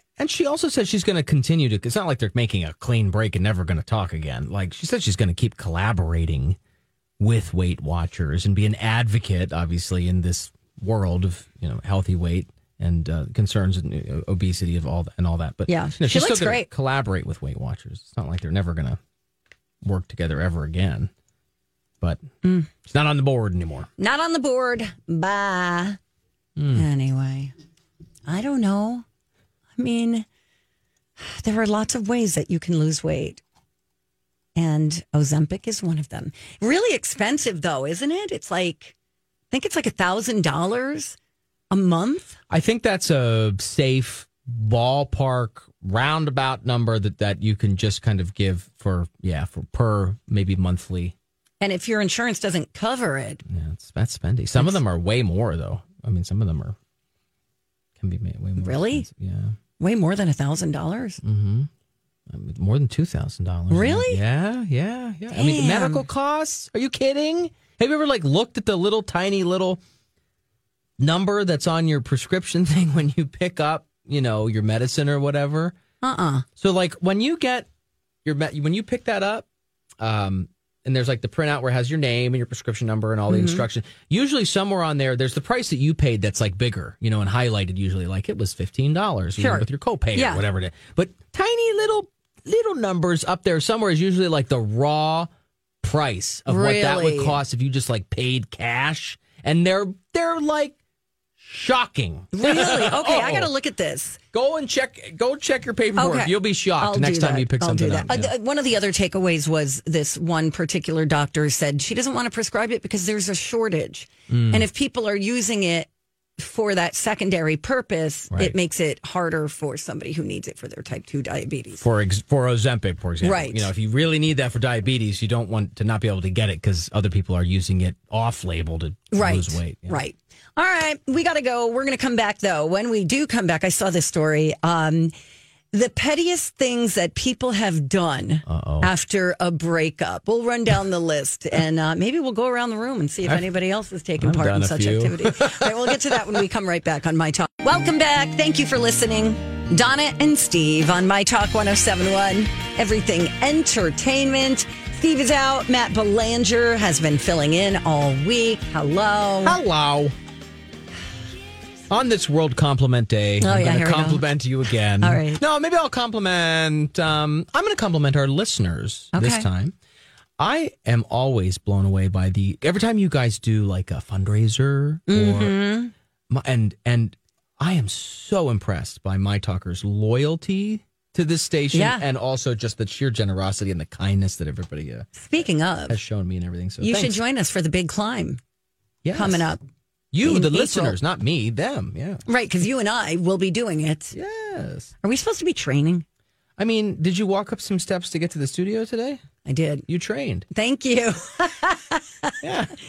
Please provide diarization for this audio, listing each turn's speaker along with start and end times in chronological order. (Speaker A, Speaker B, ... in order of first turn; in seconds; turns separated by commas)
Speaker A: 0.2-6.6, Speaker A: 7.2-19.0, Speaker B: 15.7-16.7, Speaker A: 19.8-21.1, Speaker B: 22.4-22.7, Speaker A: 22.8-23.9, Speaker B: 24.0-26.0, Speaker A: 26.6-26.9, Speaker B: 26.7-27.5, Speaker B: 28.3-29.1, Speaker B: 29.8-30.3, Speaker B: 31.2-33.4, Speaker B: 34.5-39.0, Speaker B: 39.5-41.2, Speaker B: 41.7-42.4, Speaker A: 42.5-51.1, Speaker B: 51.6-53.4, Speaker A: 53.5-56.8, Speaker A: 58.0-59.6, Speaker B: 58.6-59.1, Speaker B: 59.8-61.2, Speaker A: 61.2-61.7, Speaker A: 62.3-69.8, Speaker B: 63.7-64.2, Speaker B: 65.3-66.1, Speaker A: 71.0-75.8, Speaker B: 76.0-76.5, Speaker A: 76.6-77.7, Speaker A: 78.2-79.5, Speaker A: 80.0-95.3, Speaker B: 83.3-83.7, Speaker B: 89.4-90.4, Speaker A: 95.8-100.8, Speaker B: 96.5-97.4, Speaker A: 101.4-103.5, Speaker B: 102.3-104.2, Speaker A: 104.3-108.3, Speaker B: 106.0-121.8, Speaker A: 114.3-114.7, Speaker A: 118.3-118.6, Speaker A: 121.8-130.0, Speaker B: 123.2-123.7, Speaker B: 129.1-135.1, Speaker B: 135.7-159.6, Speaker A: 138.5-138.9, Speaker A: 144.2-146.2, Speaker A: 159.4-160.2, Speaker A: 161.9-169.7, Speaker B: 163.4-164.3, Speaker B: 165.0-165.4, Speaker B: 169.1-169.5, Speaker A: 170.4-175.6, Speaker B: 175.1-175.9, Speaker A: 176.3-185.1, Speaker B: 181.7-182.1, Speaker B: 185.2-186.0, Speaker A: 185.9-187.2, Speaker B: 186.8-188.4, Speaker A: 189.0-189.5, Speaker B: 189.1-189.6, Speaker A: 190.1-192.2, Speaker B: 190.2-191.0, Speaker B: 192.3-194.1, Speaker A: 194.1-194.9, Speaker B: 195.0-196.1, Speaker A: 196.6-199.2, Speaker B: 199.4-199.9, Speaker A: 199.9-200.5, Speaker B: 200.5-202.3, Speaker A: 202.4-202.8